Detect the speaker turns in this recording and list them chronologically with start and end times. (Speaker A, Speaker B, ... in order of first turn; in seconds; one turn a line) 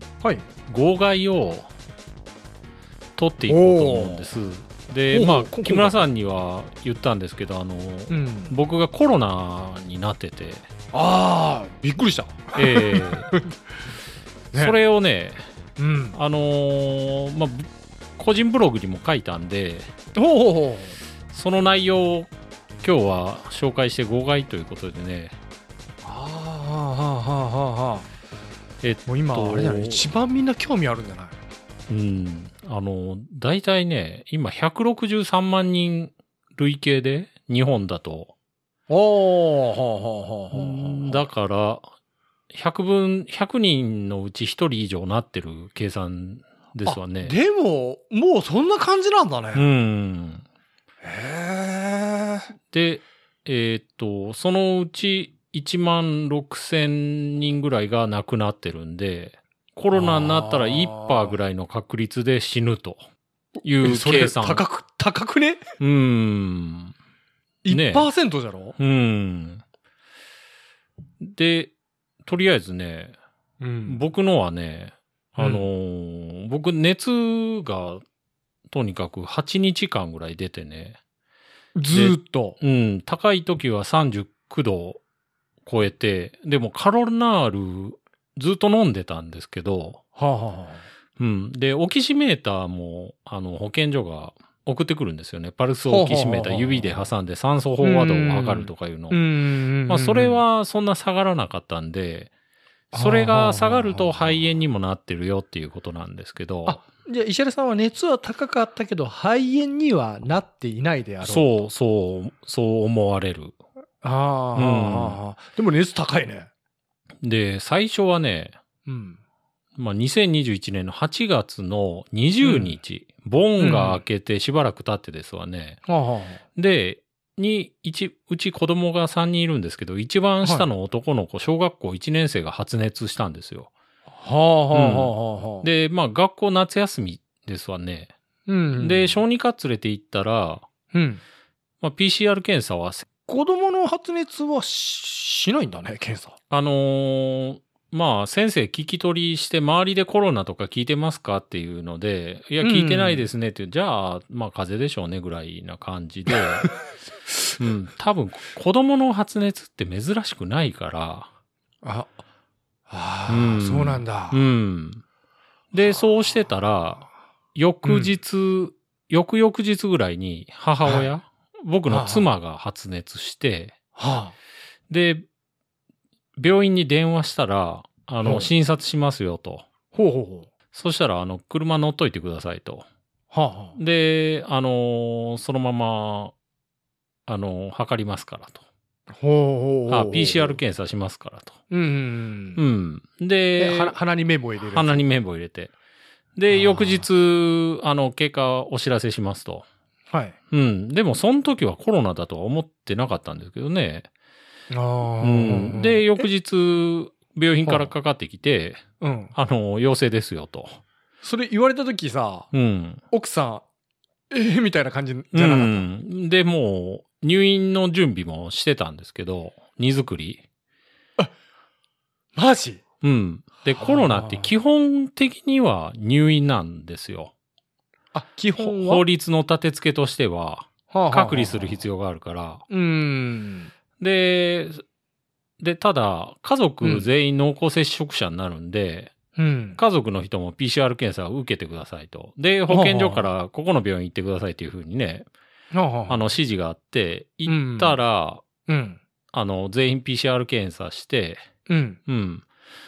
Speaker A: 0.7-1.7
Speaker A: 3.2-10.7
Speaker B: 3.5-4.3
Speaker B: 5.1-6.0
Speaker B: 8.1-8.6
Speaker B: 10.9-13.6
Speaker A: 12.5-13.3
Speaker A: 14.5-15.4
Speaker B: 15.8-16.2
Speaker A: 16.1-19.9
Speaker B: 20.1-21.0
Speaker A: 21.3-25.4
Speaker B: 26.0-28.1
Speaker A: 28.8-30.1
Speaker B: 29.1-31.4
Speaker A: 31.9-38.3
Speaker B: 38.9-41.2
Speaker A: 40.5-41.9
Speaker A: 42.5-47.3
Speaker B: 46.8-49.7
Speaker A: 49.5-50.4
Speaker B: 51.0-52.5
Speaker A: 52.7-63.0
Speaker B: 59.9-61.4
Speaker B: 63.6-65.6
Speaker A: 63.6-64.6
Speaker A: 65.8-66.9
Speaker B: 67.6-68.8
Speaker A: 67.7-68.1
Speaker A: 68.8-69.6
Speaker A: 71.2-71.7
Speaker A: 72.2-73.1
Speaker B: 73.6-74.0
Speaker A: 73.9-78.0
Speaker B: 75.4-75.7
Speaker A: 78.7-81.0
Speaker B: 81.8-82.6
Speaker A: 81.9-85.0
Speaker A: 85.6-90.0
Speaker B: 90.2-90.9
Speaker A: 91.2-99.2
Speaker B: 95.8-97.0
Speaker B: 97.8-100.4
Speaker A: 99.8-102.3
Speaker B: 102.9-104.4
Speaker A: 102.9-106.8
Speaker B: 106.6-111.6
Speaker A: 111.2-113.6
Speaker B: 114.0-116.5
Speaker A: 114.5-115.2
Speaker A: 117.2-118.6
Speaker B: 118.8-119.2
Speaker A: 119.8-125.8
Speaker B: 122.4-122.8
Speaker B: 123.6-124.0
Speaker B: 125.8-126.4
Speaker A: 126.5-133.7
Speaker B: 134.2-135.7
Speaker A: 134.7-138.1
Speaker B: 138.5-139.2
Speaker A: 138.8-140.6
Speaker B: 140.9-141.2
Speaker A: 141.8-143.1
Speaker B: 143.2-146.4
Speaker A: 146.5-156.7
Speaker B: 152.6-153.2
Speaker B: 156.3-156.7
Speaker A: 157.6-161.3
Speaker B: 161.8-162.2
Speaker B: 162.9-164.4
Speaker A: 163.3-165.0
Speaker A: 165.7-173.8
Speaker B: 167.8-168.1
Speaker B: 170.8-171.1
Speaker B: 171.9-172.3
Speaker B: 173.9-174.3
Speaker A: 174.9-175.2
Speaker A: 176.4-179.6
Speaker B: 178.2-178.5
Speaker B: 179.9-180.5
Speaker A: 180.7-182.8
Speaker B: 183.3-183.8
Speaker A: 183.8-186.3
Speaker A: 187.3-188.6
Speaker B: 189.1-190.6
Speaker A: 189.9-191.6
Speaker B: 191.7-192.6
Speaker A: 192.6-193.9
Speaker B: 193.6-195.1
Speaker A: 194.7-195.7
Speaker A: 196.4-199.6
Speaker B: 196.5-197.1
Speaker B: 200.1-200.4
Speaker A: 200.5-204.1
Speaker B: 204.7-206.3
Speaker A: 205.2-208.8
Speaker B: 207.6-207.9
Speaker B: 209.0-209.3
Speaker A: 209.3-210.8
Speaker B: 211.2-212.5
Speaker A: 212.5-213.0
Speaker B: 213.1-213.6
Speaker B: 214.3-215.8
Speaker A: 215.3-220.4
Speaker B: 222.3-222.8
Speaker A: 223.0-227.3
Speaker B: 223.8-224.5
Speaker B: 228.1-229.0
Speaker A: 228.6-232.6
Speaker B: 230.9-231.8
Speaker B: 232.7-233.7
Speaker A: 234.0-234.8
Speaker A: 235.6-239.1
Speaker B: 236.8-237.1
Speaker B: 239.3-239.8
Speaker A: 239.8-245.3
Speaker B: 242.7-243.3
Speaker B: 245.7-246.3
Speaker A: 246.1-248.4
Speaker B: 247.4-248.0
Speaker B: 248.7-249.0
Speaker A: 249.3-251.4
Speaker B: 251.7-252.0
Speaker A: 252.1-252.4